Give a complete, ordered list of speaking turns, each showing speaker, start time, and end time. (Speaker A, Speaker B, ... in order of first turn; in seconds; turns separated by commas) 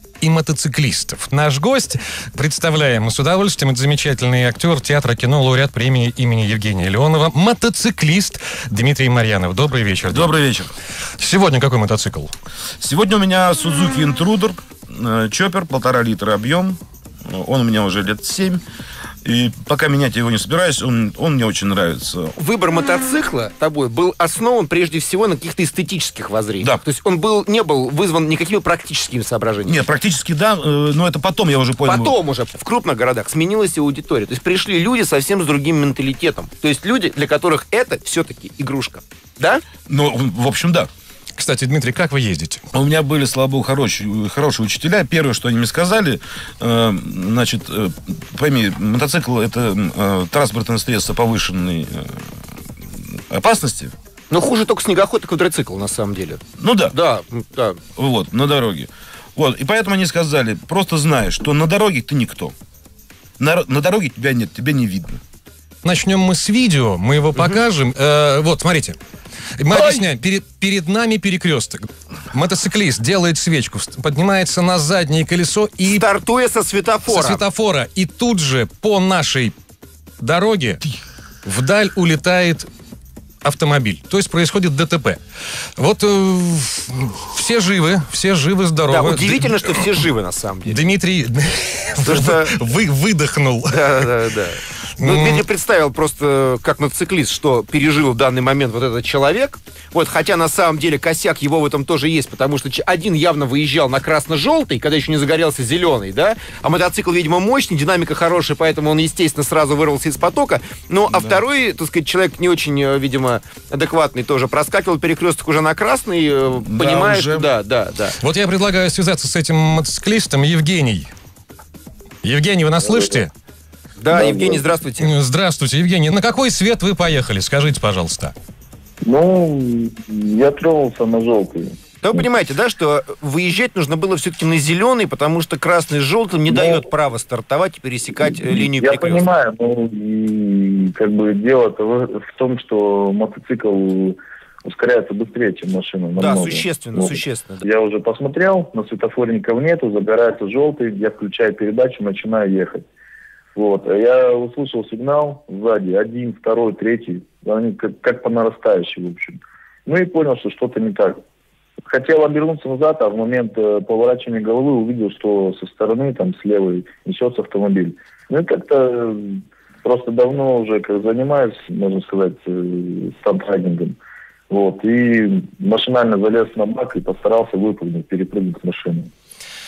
Speaker A: 0.2-10.3, Speaker B: 10.1-10.7, Speaker A: 11.2-12.3, Speaker B: 12.8-18.6, Speaker B: 19.2-22.4, Speaker C: 22.4-29.9, Speaker B: 29.6-32.1, Speaker C: 31.9-39.6, Speaker B: 39.9-40.9, Speaker A: 41.4-42.6, Speaker B: 42.7-52.2, Speaker B: 53.3-53.9, Speaker C: 54.3-57.8, Speaker B: 56.6-57.0, Speaker B: 58.0-62.5, Speaker B: 63.4-65.2, Speaker A: 65.8-69.0, Speaker A: 69.6-76.1, Speaker C: 75.9-77.4, Speaker A: 77.1-79.5, Speaker A: 80.2-80.8, Speaker A: 81.5-82.7, Speaker A: 83.4-85.2, Speaker A: 85.8-90.0, Speaker C: 88.9-90.8, Speaker A: 90.7-94.1, Speaker C: 92.0-92.5, Speaker C: 93.7-118.2, Speaker A: 95.0-95.4, Speaker B: 111.1-111.4, Speaker B: 116.6-117.5, Speaker A: 118.2-121.1, Speaker A: 122.2-123.3, Speaker C: 124.0-125.1, Speaker D: 124.1-124.7, Speaker A: 125.0-128.3, Speaker D: 129.0-131.8, Speaker C: 132.0-139.3, Speaker D: 136.5-136.8, Speaker D: 138.2-152.8, Speaker C: 146.2-147.7, Speaker D: 153.6-161.2, Speaker D: 161.8-173.9, Speaker D: 174.5-179.1